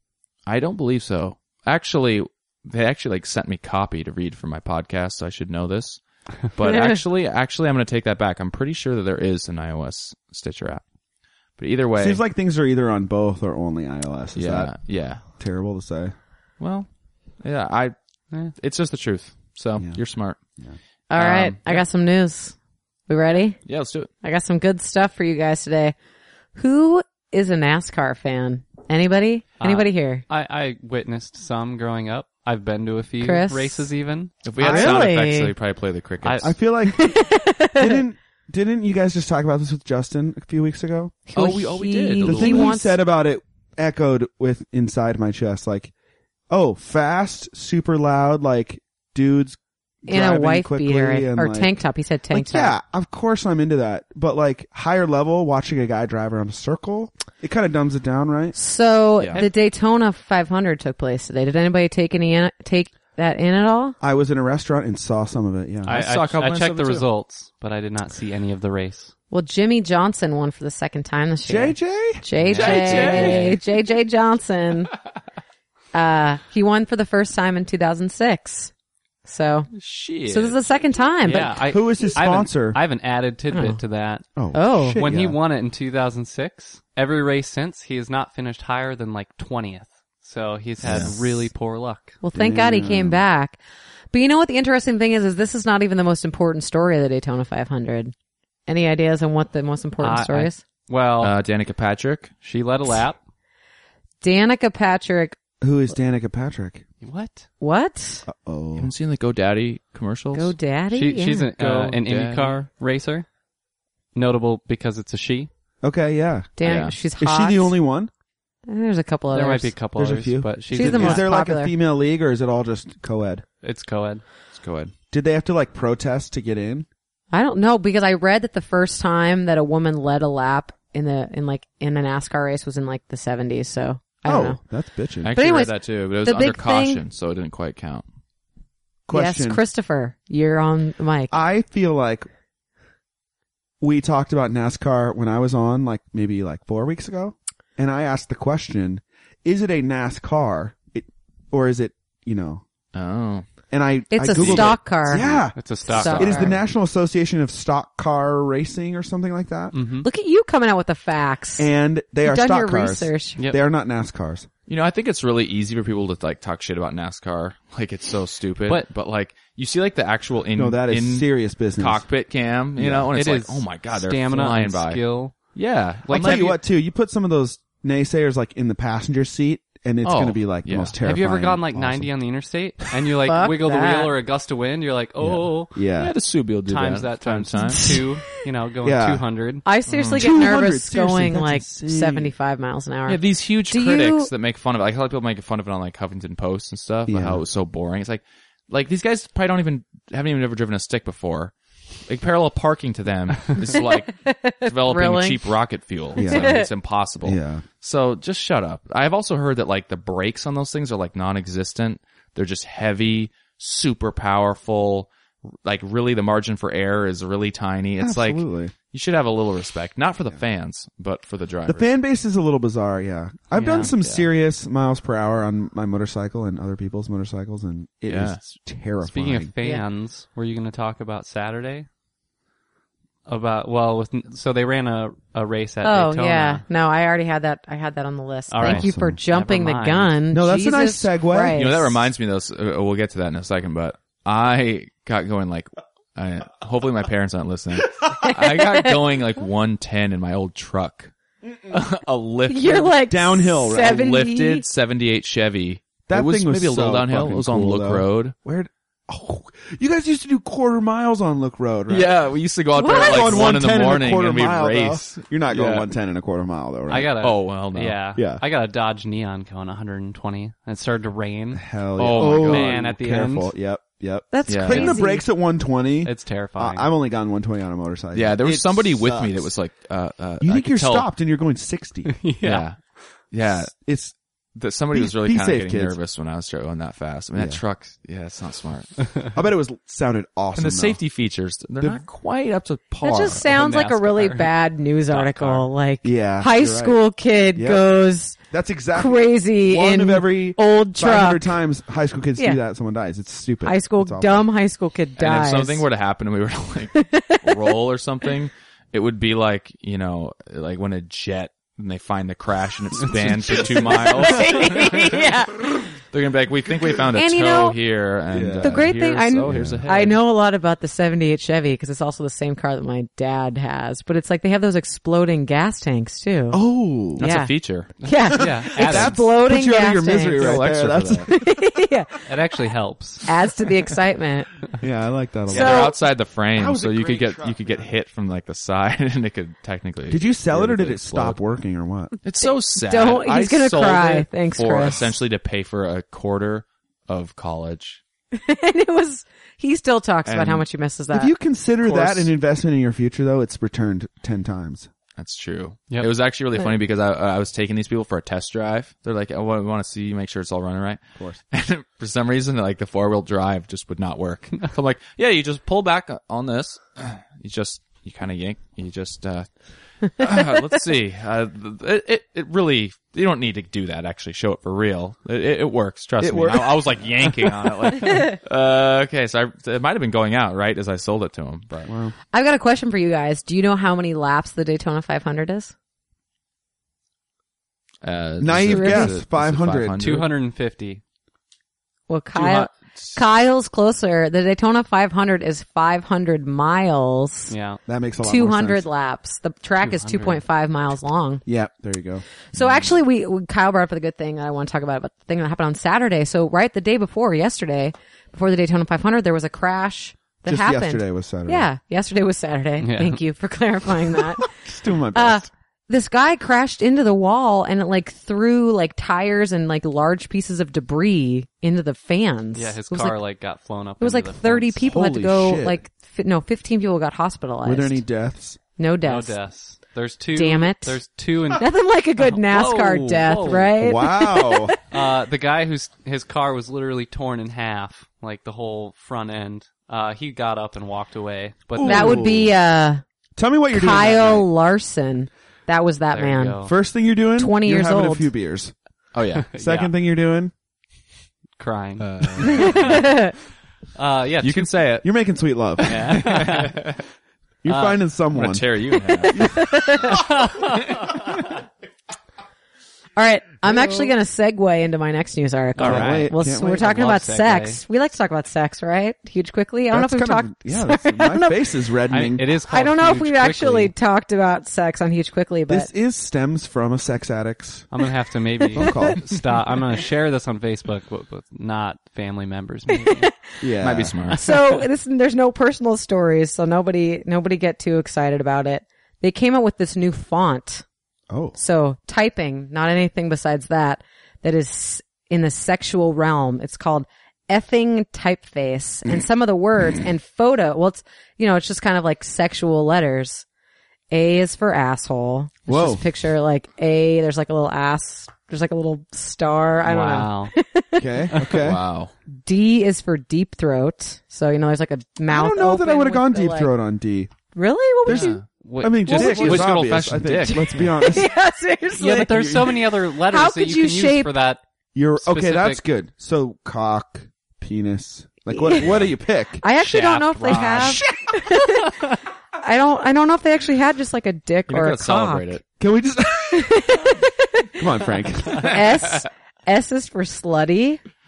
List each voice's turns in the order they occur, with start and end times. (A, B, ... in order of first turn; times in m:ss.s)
0:00.5-0:10.8 A
0:06.6-0:07.0 B
0:11.6-0:12.2 A
0:12.0-0:14.7 C
0:14.4-0:15.2 A
0:15.4-0:16.1 C
0:16.6-0:16.9 A
0:17.4-0:18.0 A
0:18.5-0:20.4 A
0:21.1-0:22.6 B
0:21.2-0:21.8 A
0:23.1-0:23.6 B
0:23.7-0:24.1 A
0:24.2-0:26.0 B
0:26.6-0:30.2 B
0:29.6-0:34.3 D
0:33.2-0:33.9 B
0:34.4-0:36.5 A
0:34.6-0:35.0 C
0:34.6-0:35.5 B
0:36.2-0:36.5 D
0:36.4-0:37.2 C
0:36.9-0:38.0 B
0:37.8-0:41.2 C
0:41.3-0:43.0 B
0:41.4-0:42.8 A
0:42.2-0:45.9 C
0:46.5-0:51.7 C
0:50.1-0:52.8 B
0:52.3-0:58.6 C
0:58.5-1:04.0 B
0:59.2-0:59.5 A
1:04.0-1:06.0 C
1:05.8-1:09.1 D
1:05.9-1:07.1 A
1:09.3-1:14.9 B
1:11.5-1:12.2 C
1:12.4-1:13.6 D
1:12.5-1:13.6 A
1:15.9-1:18.7 B
1:19.2-1:19.7 B
1:19.7-1:20.7 A
1:20.3-1:21.6 B
1:21.2-1:24.2 D
1:21.7-1:22.8 C
1:23.5-1:23.8 B
1:24.4-1:25.4 C
1:24.5-1:25.0 B
1:25.0-1:32.2 D
1:30.8-1:31.1 A
1:30.9-1:31.3 C
1:32.2-1:33.6 B
1:32.3-1:33.2 C
1:34.1-1:38.1 B
1:38.7-1:40.6 B
1:40.0-1:41.3 D
1:41.2-1:42.4 A
1:42.4-1:43.2 D
1:44.2-1:45.4 B
1:45.6-1:46.8 C
1:47.0-1:47.5 D
1:47.6-1:48.2 B
1:48.2-1:48.9 C
1:48.8-1:50.6 A
1:50.4-1:51.5 B
1:50.9-1:53.3 D
1:51.6-1:52.6 A
1:54.1-1:55.5 D
1:55.8-1:56.6 C
1:56.6-1:57.8 B
1:56.6-1:57.0 A
1:57.2-1:58.1 C
1:58.7-1:59.7 B
1:59.3-2:01.3 D
2:00.0-2:03.4 C
2:00.7-2:01.7 B
2:03.6-2:04.2 D
2:04.5-2:04.9 A
2:05.1-2:06.9 C
2:07.3-2:14.6 B
2:14.2-2:15.3 C
2:15.2-2:18.0 A
2:15.4-2:17.0 B
2:19.1-2:19.6 C
2:19.1-2:21.4 B
2:21.3-2:22.3 C
2:23.8-2:32.6 C
2:32.9-2:33.5 A
2:33.7-2:39.8 C
2:34.1-2:35.3 B
2:34.3-2:36.6 A
2:35.6-2:36.4 D
2:35.9-2:36.6 B
2:39.7-2:40.1 D
2:40.0-2:41.7 B
2:41.6-2:44.5 C
2:42.2-2:43.4 B
2:44.7-2:56.6 A
2:50.6-2:52.1 C
2:52.8-2:53.1 C
2:53.1-2:55.4 D
2:56.1-2:56.5 D
2:56.1-3:02.1 C
3:00.0-3:01.0 A
3:01.0-3:05.7 D
3:03.2-3:04.1 B
3:05.2-3:06.1 C
3:05.9-3:08.0 A
3:06.7-3:09.7 D
3:08.8-3:09.2 C
3:09.6-3:14.3 B
3:09.9-3:10.3 A
3:10.2-3:12.3 C
3:13.1-3:21.5 A
3:17.1-3:17.4 C
3:22.1-3:35.1 A
3:23.7-3:25.4 B
3:26.2-3:26.7 C
3:26.2-3:26.7 B
3:27.2-3:27.6 C
3:35.6-3:41.9 A
3:38.0-3:38.7 C
3:41.7-3:49.5 C
3:43.6-3:43.9 D
3:44.0-3:44.3 A
3:48.1-3:48.4 A
3:49.0-3:51.9 D
3:53.3-3:56.6 D
3:55.8-4:02.0 B
3:58.5-4:00.2 D
3:58.6-3:59.2 C
4:00.3-4:01.6 C
4:01.5-4:11.1 A
4:08.1-4:09.0 B
4:11.7-4:13.0 A
4:12.5-4:14.6 B
4:13.1-4:14.1 C
4:13.7-4:18.3 A
4:16.1-4:22.1 C
4:21.9-4:25.9 A
4:22.8-4:23.5 B
4:22.8-4:27.1 C
4:26.9-4:33.5 D
4:27.2-4:28.0 A
4:28.2-4:28.4 C
4:31.6-4:39.5 C
4:32.0-4:32.8 A
4:34.3-4:35.3 B
4:34.5-4:35.0 A
4:36.0-4:36.9 D
4:38.1-4:41.1 A
4:40.4-4:42.1 C
4:42.1-4:42.7 D
4:42.4-4:42.8 A
4:43.3-4:43.8 A
4:43.5-4:44.1 C
4:44.6-4:49.0 A
4:44.9-4:46.0 C
4:47.4-4:47.6 C
4:49.3-4:51.0 C
4:50.6-4:53.4 A
4:53.0-4:58.4 B
4:53.3-4:54.5 D
4:55.1-4:55.6 A
4:56.0-4:57.0 C
4:57.6-5:04.5 C
4:58.9-5:01.6 B
5:03.6-5:05.9 B
5:05.2-5:15.2 A
5:07.0-5:07.6 B
5:13.0-5:14.0 D
5:13.1-5:14.3 C
5:13.7-5:15.8 B
5:16.0-5:20.2 A
5:17.2-5:17.8 B
5:18.3-5:19.9 C
5:18.6-5:26.6 B
5:26.5-5:27.3 C
5:27.2-5:30.7 B
5:27.2-5:28.0 A
5:28.3-5:31.3 C
5:28.4-5:29.2 D
5:30.3-5:31.3 A
5:31.2-5:32.1 B
5:32.3-5:33.3 D
5:33.2-5:34.5 B
5:34.8-5:36.0 C
5:35.5-5:41.4 A
5:35.5-5:36.0 B
5:36.6-5:37.9 C
5:40.1-5:42.1 C
5:42.2-5:48.0 A
5:42.4-5:45.1 B
5:48.3-5:51.3 B
5:50.3-5:50.7 A
5:51.1-5:54.9 C
5:51.8-5:52.3 D
5:55.2-6:09.5 A
6:10.1-6:21.9 A
6:16.2-6:18.1 C
6:21.9-6:22.2 C
6:22.3-6:25.7 B
6:28.0-6:30.3 A
6:28.4-6:30.0 C
6:28.6-6:29.2 B
6:30.0-6:31.0 D
6:32.1-6:37.5 B
6:32.4-6:33.2 A
6:37.5-6:37.8 D
6:37.9-6:38.9 C
6:38.2-6:41.4 B
6:39.8-6:40.4 D
6:41.5-6:42.2 C
6:42.5-6:54.5 B
6:50.5-6:51.7 C
6:52.8-6:53.2 D
6:54.6-6:55.5 C
6:55.1-7:03.2 B
7:02.6-7:04.9 D
7:04.0-7:08.0 B
7:04.8-7:05.8 C
7:07.6-7:08.6 C
7:08.8-7:09.4 B
7:09.0-7:13.7 D
7:10.3-7:11.0 B
7:11.6-7:14.8 B
7:13.5-7:14.7 C
7:14.9-7:22.3 D
7:21.8-7:22.5 C
7:21.8-7:23.0 B
7:23.4-7:24.5 C
7:23.7-7:26.6 B
7:26.1-7:26.7 D
7:26.6-7:28.7 C
7:27.4-7:28.3 B
7:29.1-7:29.5 A
7:29.4-7:29.9 D
7:29.6-7:30.5 C
7:31.6-7:33.1 D
7:32.0-7:33.1 A
7:32.4-7:33.3 B
7:34.0-7:34.8 D
7:34.4-7:35.1 A
7:35.0-7:36.5 C
7:35.8-7:37.0 A
7:35.8-7:36.9 D
7:37.6-7:38.7 C
7:37.7-7:38.0 D
7:38.3-7:39.6 A
7:38.9-7:40.3 B
7:39.3-7:39.7 C
7:40.1-7:41.1 D
7:43.2-7:51.7 B
7:43.7-7:44.1 C
7:45.8-7:47.8 D
7:45.8-7:47.0 C
7:49.9-7:52.5 C
7:52.1-7:53.9 D
7:52.6-7:55.9 B
7:55.7-7:57.9 C
7:57.9-8:03.4 D
7:58.7-7:59.2 C
7:58.8-7:59.1 B
8:02.9-8:03.3 B
8:03.6-8:04.2 C
8:03.8-8:04.4 A
8:04.3-8:04.8 D
8:04.3-8:10.8 B
8:11.3-8:11.6 C
8:11.6-8:23.5 B
8:24.1-8:31.2 B
8:25.7-8:26.0 C
8:29.8-8:30.5 D
8:31.0-8:31.8 C
8:31.3-8:31.7 D
8:31.6-8:32.1 A
8:32.4-8:36.7 B
8:35.3-8:37.3 C
8:37.5-8:38.4 B
8:38.1-8:38.5 A
8:38.1-8:41.3 C
8:38.5-8:39.6 D
8:39.1-8:39.7 B
8:39.1-8:40.9 A
8:41.0-8:42.4 B
8:42.0-8:44.6 D
8:42.1-8:42.9 C
8:43.2-8:44.4 B
8:45.0-8:49.6 C
8:45.2-8:45.8 D
8:48.5-8:48.9 B
8:48.8-8:49.1 A
8:49.6-8:52.0 B
8:49.8-8:51.0 D
8:50.5-8:51.0 A
8:52.6-8:55.6 B
8:54.7-8:55.6 A
8:55.8-8:57.1 C
8:56.5-8:57.8 B
8:57.8-8:58.8 C
8:58.4-9:01.0 B